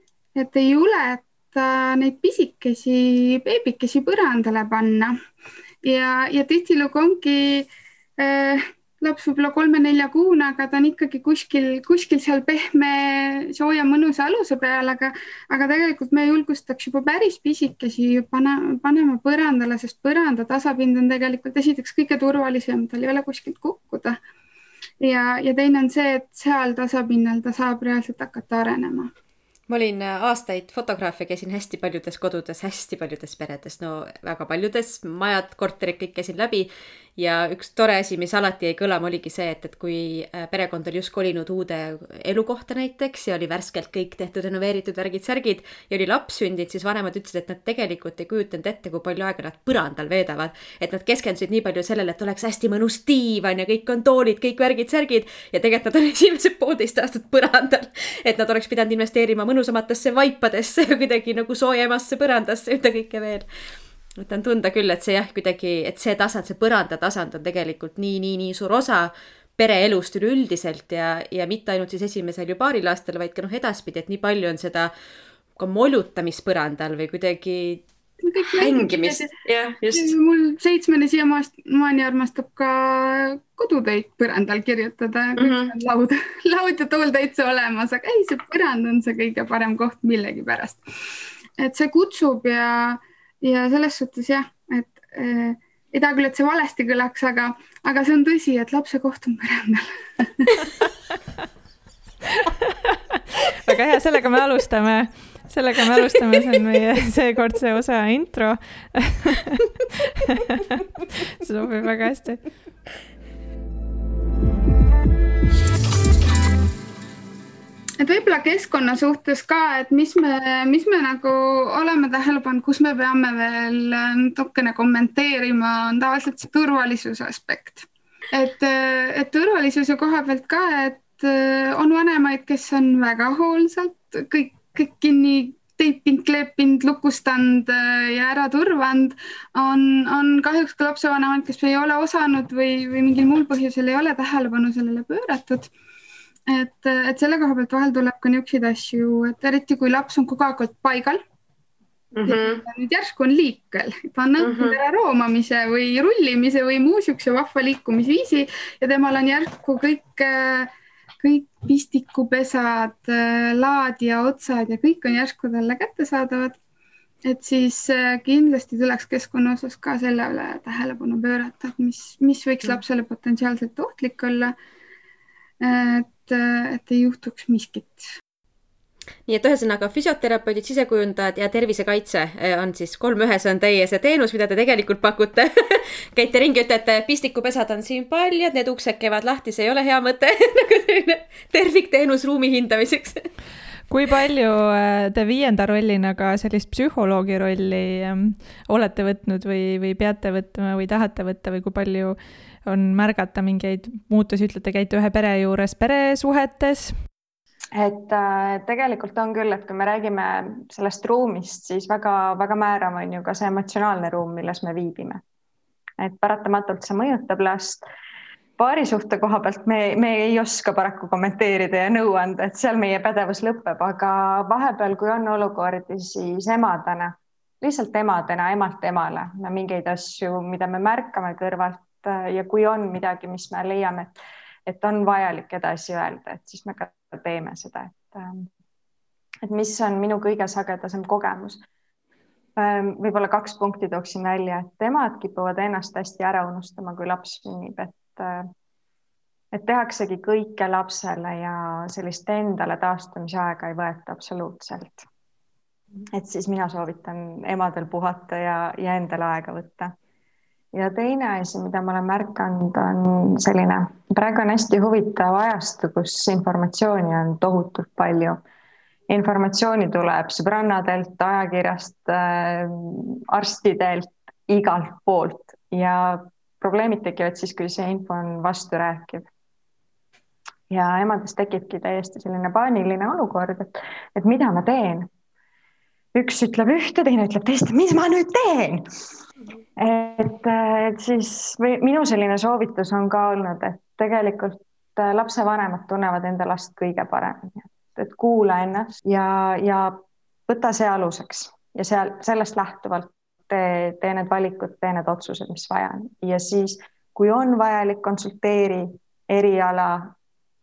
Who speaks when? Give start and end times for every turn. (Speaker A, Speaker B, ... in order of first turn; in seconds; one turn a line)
Speaker A: 0.4-5.1
Speaker A: 5.8-7.7
Speaker A: 8.2-24.2
Speaker A: 25.0-29.1
Speaker B: 29.7-63.5
Speaker B: 64.2-74.9
Speaker B: 75.6-77.8
Speaker A: 78.2-79.3
Speaker B: 78.5-80.1
Speaker A: 79.9-90.8
Speaker B: 85.4-85.7
Speaker A: 91.6-100.5
Speaker C: 103.6-109.6
Speaker C: 110.3-110.8
Speaker C: 111.4-112.5
Speaker A: 118.0-145.7
Speaker A: 146.5-151.2
Speaker B: 152.1-152.6
Speaker A: 152.2-160.7
Speaker B: 154.4-154.8
Speaker A: 161.2-166.6
Speaker A: 167.3-174.6
Speaker A: 175.6-178.1
Speaker B: 179.3-193.3
Speaker C: 193.9-206.9
Speaker D: 207.8-215.2
Speaker D: 216.0-217.8
Speaker D: 218.6-238.5
Speaker D: 239.4-241.6
Speaker D: 242.6-248.5
Speaker D: 249.5-255.1
Speaker D: 256.1-259.9
Speaker D: 260.7-268.4
Speaker D: 269.1-279.3
Speaker D: 280.7-285.1
Speaker D: 286.1-288.9
Speaker D: 289.8-310.1